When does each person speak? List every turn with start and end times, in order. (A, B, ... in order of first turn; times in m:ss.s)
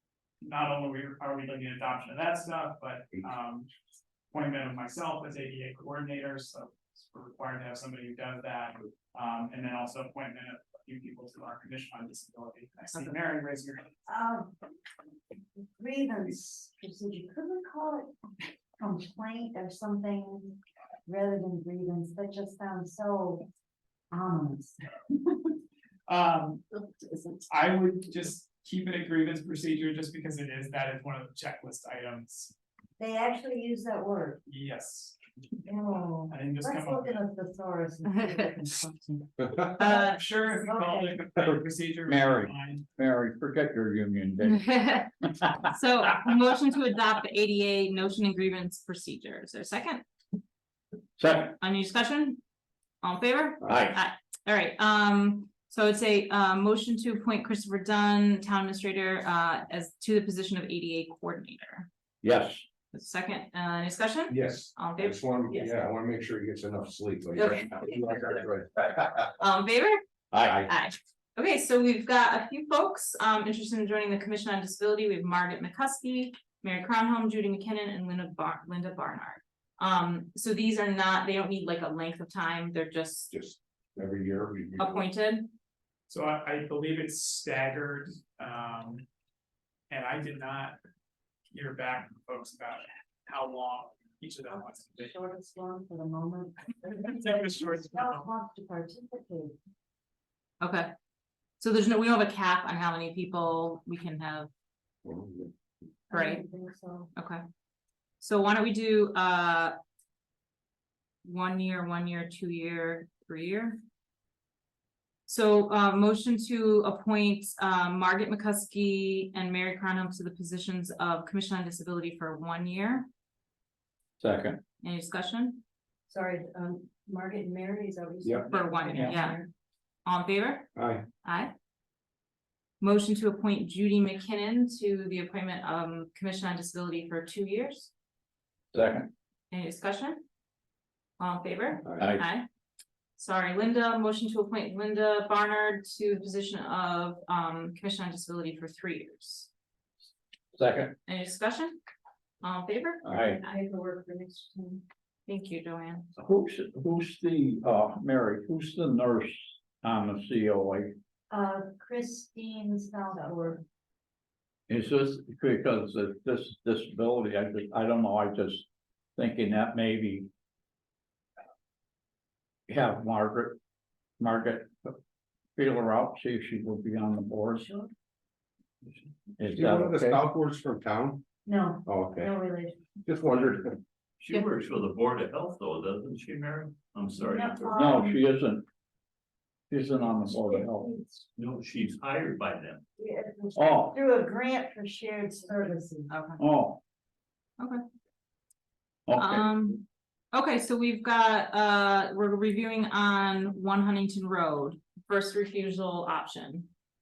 0:00.4-0:03.7 A
0:04.3-0:13.9 A
0:14.1-0:14.5 B
0:15.8-0:18.1 B
0:18.8-0:23.4 B
0:24.1-0:24.8 B
0:26.1-0:26.6 A
0:27.5-0:32.5 A
0:33.0-0:34.4 B
0:34.5-0:35.2 A
0:35.6-0:39.1 B
0:36.3-0:37.2 A
0:38.1-0:38.7 C
0:39.8-0:40.3 C
0:39.8-0:41.3 B
0:39.9-0:42.9 A
0:42.0-0:44.7 D
0:44.4-0:45.1 C
0:45.6-0:50.0 C
0:51.2-0:51.5 D
0:51.3-0:52.4 C
0:53.0-1:01.9 C
0:53.6-0:54.0 D
1:02.2-1:02.7 D
1:02.9-1:05.8 C
1:04.3-1:08.7 E
1:07.4-1:08.4 C
1:09.2-1:10.0 C
1:10.3-1:10.7 D
1:10.7-1:23.3 C
1:23.3-1:25.0 E
1:24.8-1:25.5 C
1:26.1-1:29.0 A
1:29.9-1:30.8 A
1:31.5-1:35.1 A
1:35.0-1:39.6 B
1:37.0-1:38.3 A
1:40.6-1:40.9 C
1:41.6-1:44.5 C
1:45.0-1:45.5 E
1:46.1-1:47.1 B
1:46.1-1:46.4 C
1:47.1-1:47.4 C
1:48.2-1:49.7 C
1:51.2-1:53.8 C
1:55.3-2:03.1 C
2:04.2-2:04.6 D
2:04.8-2:05.6 C
2:06.1-2:09.5 B
2:08.2-2:08.6 E
2:08.5-2:09.4 C
2:10.1-2:11.5 C
2:10.8-2:11.0 E
2:12.8-2:17.9 C
2:18.7-2:19.1 D
2:19.5-2:20.2 C
2:21.2-2:22.5 C
2:22.0-2:22.2 D
2:23.2-2:29.5 C
2:30.5-2:31.0 D
2:31.1-2:31.8 C
2:32.4-2:33.5 C
2:33.1-2:33.4 D
2:33.4-2:34.8 B
2:35.3-2:36.1 C
2:36.2-2:41.0 D
2:41.3-2:43.6 B
2:44.7-2:50.3 D
2:52.7-2:53.6 D
2:54.2-2:55.0 D
2:55.6-2:57.7 D
2:57.6-2:57.9 B
2:59.4-3:00.2 D
2:59.4-3:01.2 E
3:01.5-3:02.8 B
3:01.9-3:02.3 E
3:03.1-3:03.8 E
3:03.3-3:03.6 F
3:04.2-3:07.8 F
3:07.2-3:08.2 B
3:07.7-3:08.6 D
3:09.7-3:10.9 D
3:10.7-3:11.3 B
3:11.4-3:12.8 F
3:13.0-3:16.1 B
3:13.6-3:14.0 D
3:16.1-3:16.4 C
3:16.4-3:16.8 D
3:19.1-3:19.4 D
3:19.2-3:26.7 C